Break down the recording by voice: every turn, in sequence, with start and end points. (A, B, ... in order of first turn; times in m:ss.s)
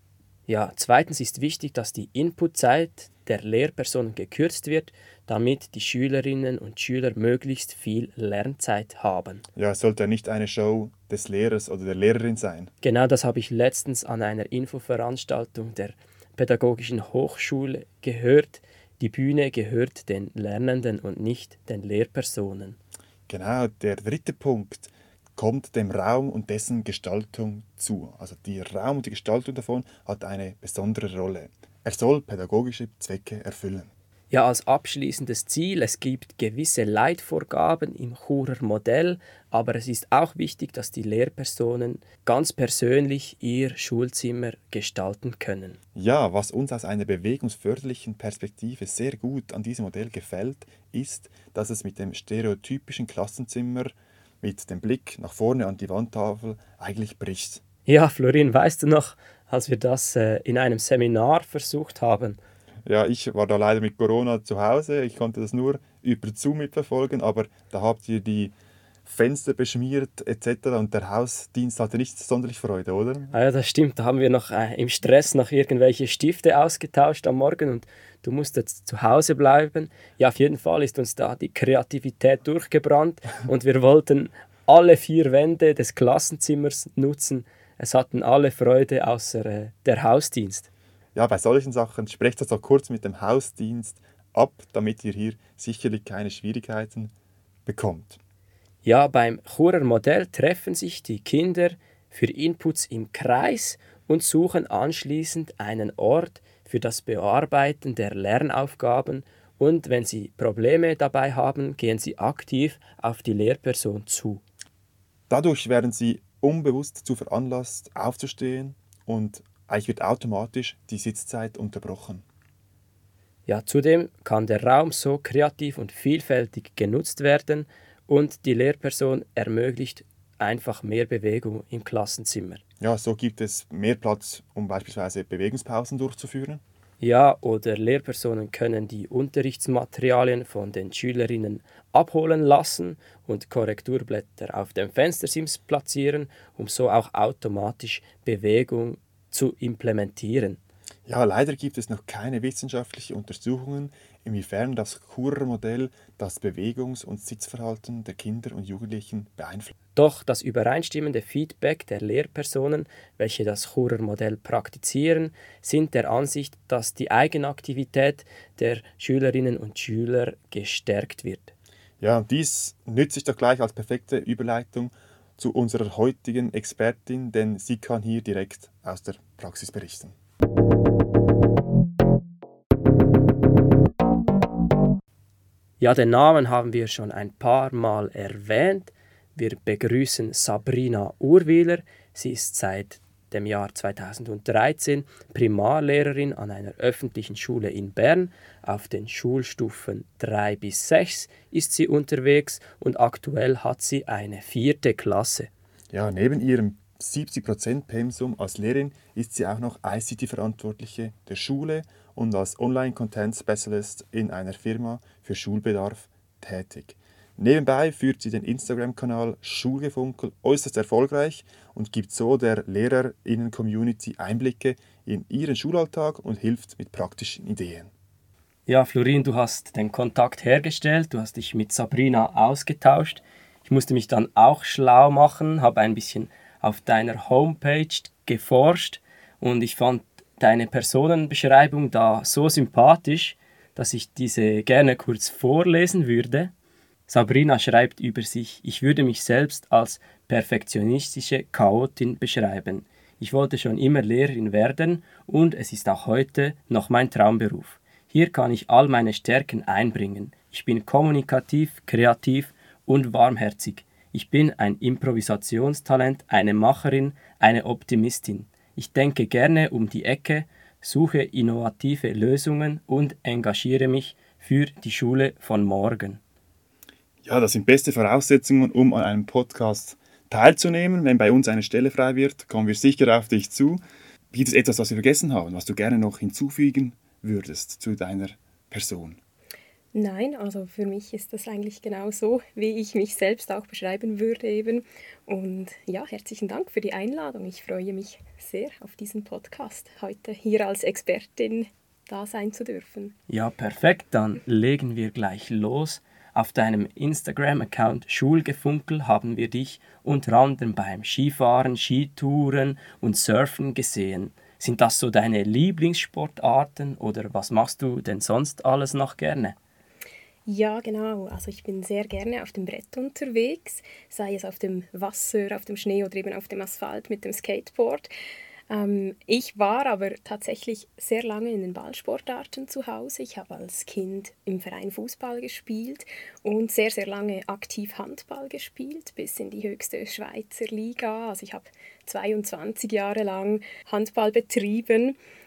0:00.5-0:09.4 A
0:09.6-0:12.7 B
0:12.8-0:22.8 A
0:23.3-0:33.9 B
0:34.3-0:45.8 A
0:45.9-0:57.6 B
0:57.8-1:02.4 A
1:02.8-1:08.5 B
1:09.0-1:13.3 B
1:13.3-1:30.7 A
1:31.1-1:37.1 B
1:37.6-1:38.2 B
1:38.8-1:54.4 A
1:55.3-2:02.2 B
2:03.4-2:12.6 A
2:12.8-2:16.6 B
2:17.0-2:30.6 A
2:31.1-2:39.7 B
2:39.9-2:51.5 A
2:52.0-3:00.1 B
3:05.8-3:25.5 A
3:25.9-3:47.9 B
3:48.7-4:06.5 A
4:07.1-4:36.2 A
4:37.2-4:49.2 B
4:49.9-5:03.2 C
5:03.3-5:19.6 A
5:20.4-5:28.1 C
5:28.7-5:45.2 C